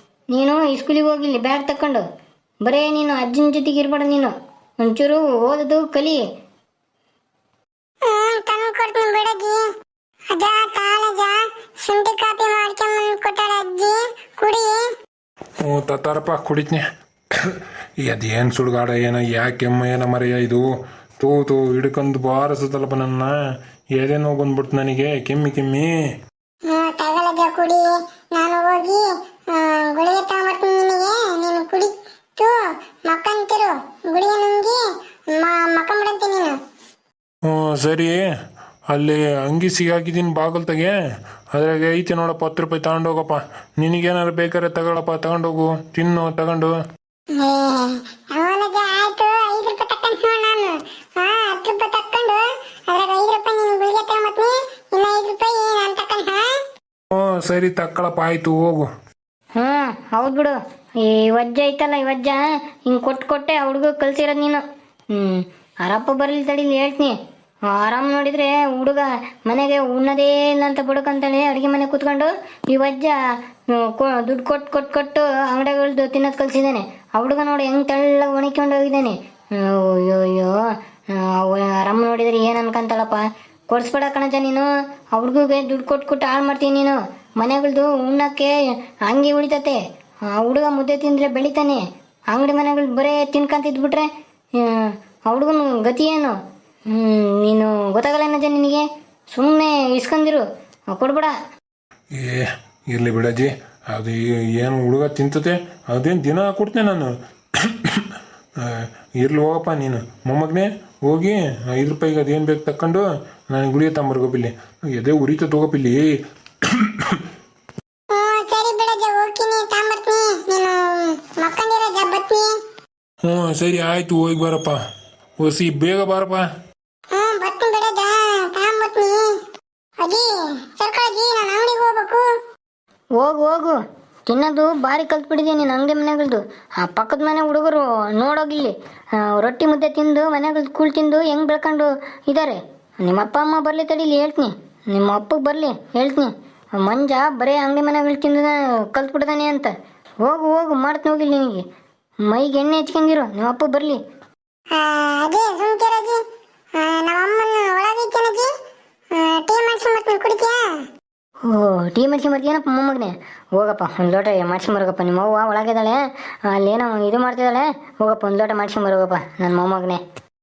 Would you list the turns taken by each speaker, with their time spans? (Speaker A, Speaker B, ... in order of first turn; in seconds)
Speaker A: 0.3-2.0, 2.6-6.2, 59.6-64.6, 65.1-67.2, 67.7-73.2, 73.7-89.8, 90.3-94.1, 94.6-96.4, 96.9-101.3, 133.2-146.3, 146.8-149.7, 150.2-151.6, 152.3-154.0, 161.4-170.0
Speaker B: 8.1-9.6, 10.3-14.8, 26.6-34.8, 35.3-36.6, 47.3-56.5, 118.1-122.5, 127.1-129.4, 130.0-132.3, 154.7-156.2, 156.8-158.5, 159.1-160.6
Speaker C: 15.6-16.8, 17.4-20.6, 21.2-23.3, 23.9-25.9, 37.5-38.2, 38.9-40.9, 41.5-46.7, 57.1-58.9, 102.2-116.1, 116.6-117.2, 123.2-124.8, 125.4-126.4